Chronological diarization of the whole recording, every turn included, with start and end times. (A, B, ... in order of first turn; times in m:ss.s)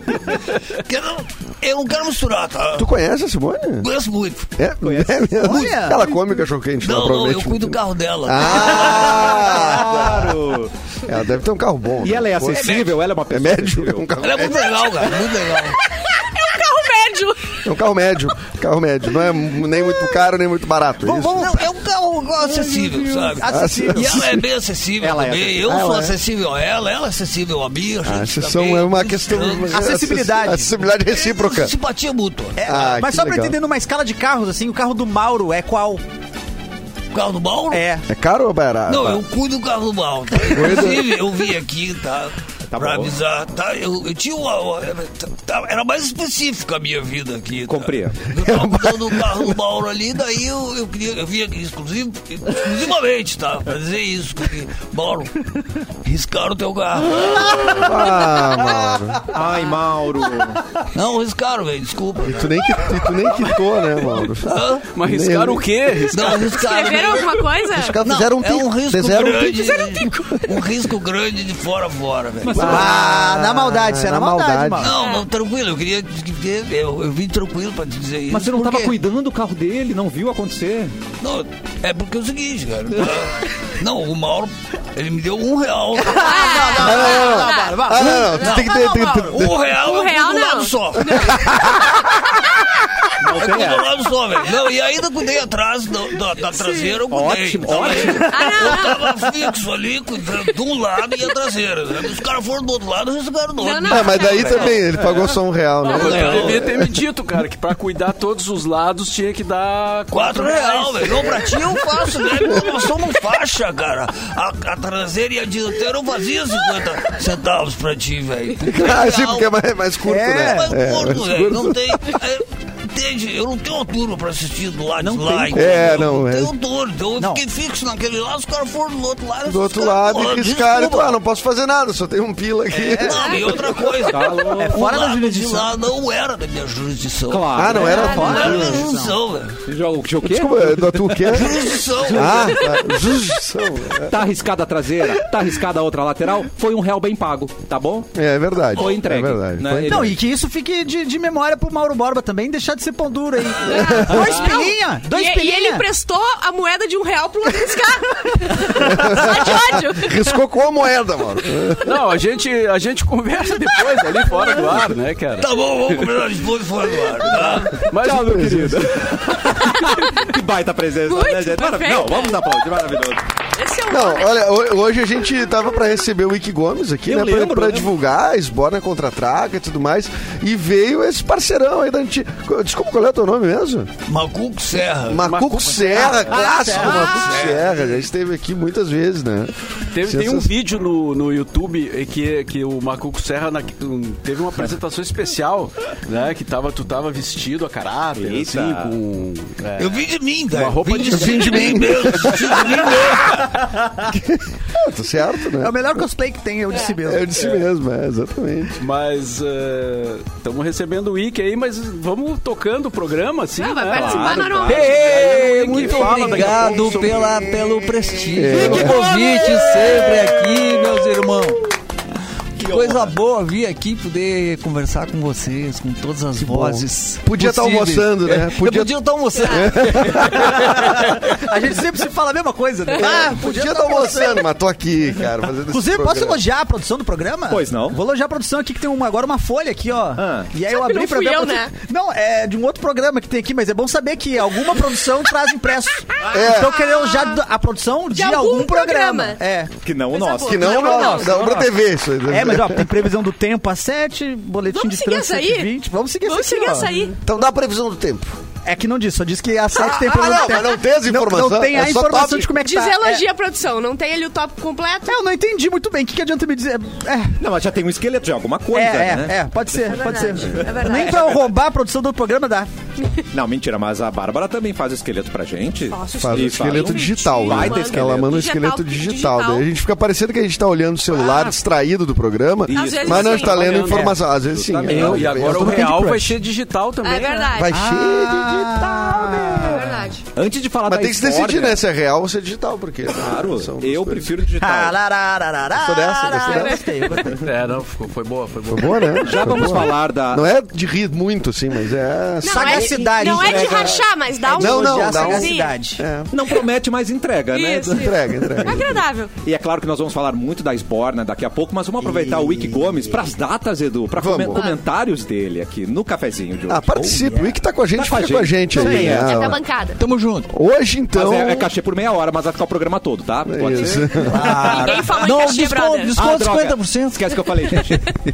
0:00.7-0:02.9 A
0:02.8-0:03.9 B
0:03.8-0:04.5 A
0:04.6-0:10.4 B
0:04.8-0:05.6 C
0:05.4-0:06.0 D
0:06.8-0:09.5 A
0:08.6-0:10.7 C
0:11.0-0:15.0 B
0:12.0-0:14.1 C
0:12.5-0:12.9 A
0:14.2-0:15.8 A
0:15.8-0:17.6 E
0:17.6-0:21.7 B
0:21.0-0:21.5 D
0:21.1-0:29.9 A
0:23.0-0:24.4 B
0:23.3-0:24.1 D
0:25.0-0:25.7 C
0:25.6-0:26.2 B
0:28.0-0:31.7 B
0:29.7-0:30.7 D
0:31.1-0:32.6 A
0:32.6-0:36.0 D
0:32.6-0:33.6 B
0:37.1-0:37.8 A
0:37.7-0:38.0 D
0:38.1-0:39.2 B
0:38.9-0:59.0 A
0:40.4-0:41.2 B
0:42.7-0:43.1 C
0:47.7-0:48.2 C
0:48.3-0:49.6 B
0:57.6-0:59.2 B
0:59.3-1:00.6 C
1:00.8-1:03.0 A
1:02.2-1:05.7 B
1:04.4-1:04.8 A
1:04.9-1:06.6 F
1:06.1-1:12.9 A
1:06.3-1:08.0 E
1:07.7-1:10.1 B
1:12.4-1:13.0 C
1:12.5-1:15.0 B
1:12.6-1:14.9 D
1:14.8-1:19.0 A
1:14.9-1:15.3 E
1:18.3-1:20.9 C
1:21.2-1:26.8 A
1:26.0-1:28.3 D
1:26.1-1:32.2 E
1:26.8-1:29.5 B
1:29.3-1:31.8 A
1:31.1-1:32.0 B
1:33.2-1:33.9 C
1:33.2-1:44.7 A
1:36.4-1:37.0 E
1:37.1-1:38.5 C
1:37.7-1:39.2 E
1:43.6-1:44.9 E
1:43.8-1:47.0 B
1:45.8-1:51.4 F
1:45.9-1:46.6 A
1:50.1-1:59.5 A
1:58.6-2:02.2 B
2:00.1-2:00.7 D
2:00.2-2:11.2 A
2:05.0-2:05.9 D
2:05.5-2:06.5 B
2:09.4-2:13.6 B
2:12.7-2:13.2 D
2:12.9-2:19.6 A
2:13.2-2:13.6 E
2:14.1-2:15.1 C
2:14.6-2:15.7 D
2:17.3-2:18.2 C
2:17.5-2:18.8 B
2:17.7-2:19.2 D
2:17.9-2:18.5 E
2:19.7-2:22.9 C
2:20.2-2:24.3 B
2:21.2-2:22.6 A
2:24.0-2:28.1 C
2:28.1-2:30.1 B
2:28.7-2:30.2 C
2:29.8-2:35.8 D
2:33.6-2:40.3 E
2:33.8-2:34.3 B
2:38.8-2:41.9 B
2:41.8-2:45.5 F
2:45.4-2:47.9 A
2:47.9-2:48.8 F
2:47.9-2:53.2 C
2:48.0-2:48.9 B
2:49.9-2:50.2 E
2:51.0-2:52.5 E
2:53.5-2:54.5 E
2:53.9-3:03.9 B
2:57.0-2:57.9 C
3:04.1-3:05.3 A
3:05.1-3:10.5 B
3:05.2-3:06.6 F
3:05.9-3:07.2 D
3:06.6-3:08.1 A
3:09.9-3:22.9 F
3:18.1-3:18.9 C
3:19.8-3:23.5 A
3:21.0-3:22.8 B
3:24.0-3:26.0 B
3:25.6-3:27.3 D
3:27.0-3:28.8 B
3:28.8-3:37.5 F
3:33.5-3:36.1 E
3:33.9-3:35.2 C
3:35.0-3:41.7 G
3:38.3-3:39.0 B
3:38.6-3:39.2 C
3:42.6-3:50.2 G
3:42.6-3:43.1 C
3:46.4-3:50.9 B
3:49.4-3:49.7 E
3:50.3-3:54.4 D
3:53.0-3:56.4 B
3:53.0-3:53.3 E
3:55.7-4:09.7 D
3:57.5-3:58.0 C
4:00.2-4:00.5 C
4:00.6-4:01.7 E
4:06.3-4:06.7 B
4:06.8-4:07.4 E
4:08.1-4:09.4 E
4:09.8-4:11.6 C
4:10.1-4:11.6 E
4:10.4-4:13.1 B
4:12.3-4:17.1 D
4:14.7-4:15.7 E
4:16.2-4:17.2 E
4:17.2-4:18.4 B
4:18.6-4:23.2 D
4:19.7-4:22.5 B
4:22.5-4:25.2 E
4:25.0-4:27.4 D
4:27.4-4:31.4 C
4:28.7-4:32.7 D
4:29.8-4:31.4 E
4:33.3-4:38.4 C
4:35.9-4:39.7 E
4:36.2-4:45.9 B
4:42.7-4:45.8 C
4:42.7-4:43.8 E
4:43.4-4:44.2 F
4:44.9-4:47.5 F
4:45.6-4:46.3 G
4:45.8-4:46.2 D
4:47.0-4:47.8 E
4:47.5-4:49.8 B
4:47.7-4:50.0 D
4:49.4-4:51.8 C
4:49.6-4:50.2 E
4:50.8-4:54.3 B
4:53.1-4:55.0 C
4:54.6-4:57.4 D
4:55.8-4:56.8 B
4:56.3-4:57.0 E
4:57.4-4:59.6 F
4:58.7-5:06.4 B
4:59.2-5:00.5 C
4:59.5-4:59.8 E
5:02.4-5:05.8 E
5:02.4-5:06.0 D
5:06.3-5:08.1 C
5:07.5-5:09.3 E
5:07.9-5:09.0 B
5:09.4-5:17.0 C
5:12.0-5:12.9 D
5:14.1-5:14.7 B
5:16.7-5:19.6 B
5:17.0-5:17.5 D
5:17.9-5:19.5 C
5:19.2-5:20.0 E
5:20.0-5:20.5 G
5:20.5-5:21.7 B
5:21.1-5:24.6 C
5:23.4-5:24.9 B
5:24.2-5:25.2 D
5:24.4-5:28.0 G
5:24.5-5:26.2 E
5:26.1-5:28.1 C